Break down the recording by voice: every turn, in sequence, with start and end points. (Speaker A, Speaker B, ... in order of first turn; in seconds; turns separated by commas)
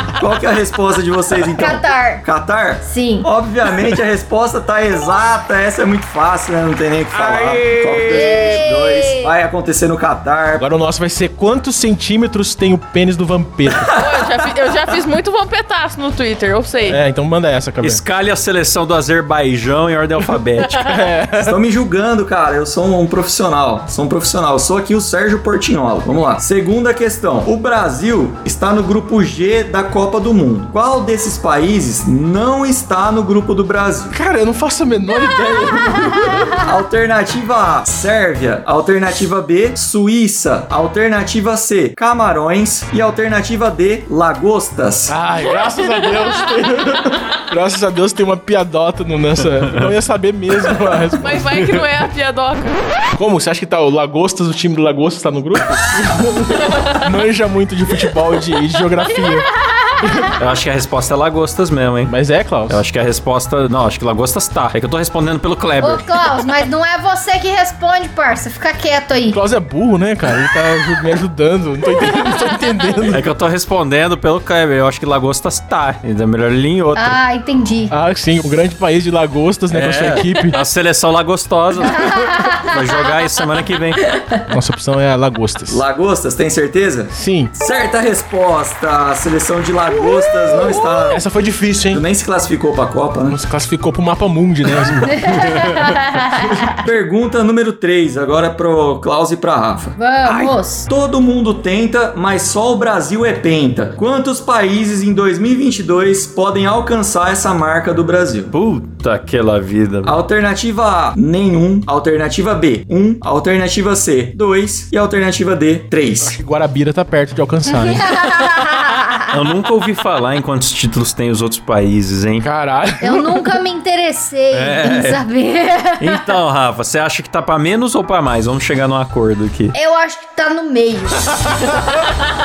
Speaker A: 0.2-10.7, Speaker B: 1.6-2.2, Speaker B: 2.8-3.3, Speaker C: 7.1-8.6, Speaker B: 8.1-9.3, Speaker D: 10.6-13.9, Speaker E: 14.0-17.0, Speaker D: 16.9-18.0, Speaker C: 17.8-20.9, Speaker D: 20.8-21.6, Speaker A: 21.4-34.2, Speaker D: 34.1-36.6, Speaker A: 36.6-45.1, Speaker D: 45.1-51.5, Speaker E: 51.2-52.9, Speaker D: 53.1-59.5, Speaker D: 60.0-60.4, Speaker C: 60.4-62.1, Speaker D: 62.1-62.8, Speaker C: 62.7-66.1, Speaker B: 65.8-69.4, Speaker D: 69.3-73.3, Speaker C: 73.1-77.2, Speaker B: 77.0-77.9, Speaker D: 77.9-80.6, Speaker C: 79.7-84.2, Speaker B: 82.0-82.7, Speaker D: 84.5-85.8, Speaker A: 85.7-91.2, Speaker D: 87.1-87.5, Speaker B: 90.8-91.2, Speaker D: 91.1-92.0, Speaker A: 91.9-93.4, Speaker D: 93.2-95.1, Speaker B: 95.1-96.8, Speaker C: 95.1-95.8, Speaker D: 96.2-96.8, Speaker A: 96.8-100.0, Speaker B: 100.0-100.9, Speaker C: 100.3-100.5, Speaker A: 100.9-108.5, Speaker C: 108.5-110.2, Speaker A: 110.0-116.4, Speaker D: 116.2-118.8, Speaker B: 117.8-119.3, Speaker C: 119.3-122.5, Speaker D: 122.4-123.6, Speaker B: 123.0-126.2, Speaker C: 124.5-125.2, Speaker C: 126.0-129.7, Speaker B: 129.7-131.5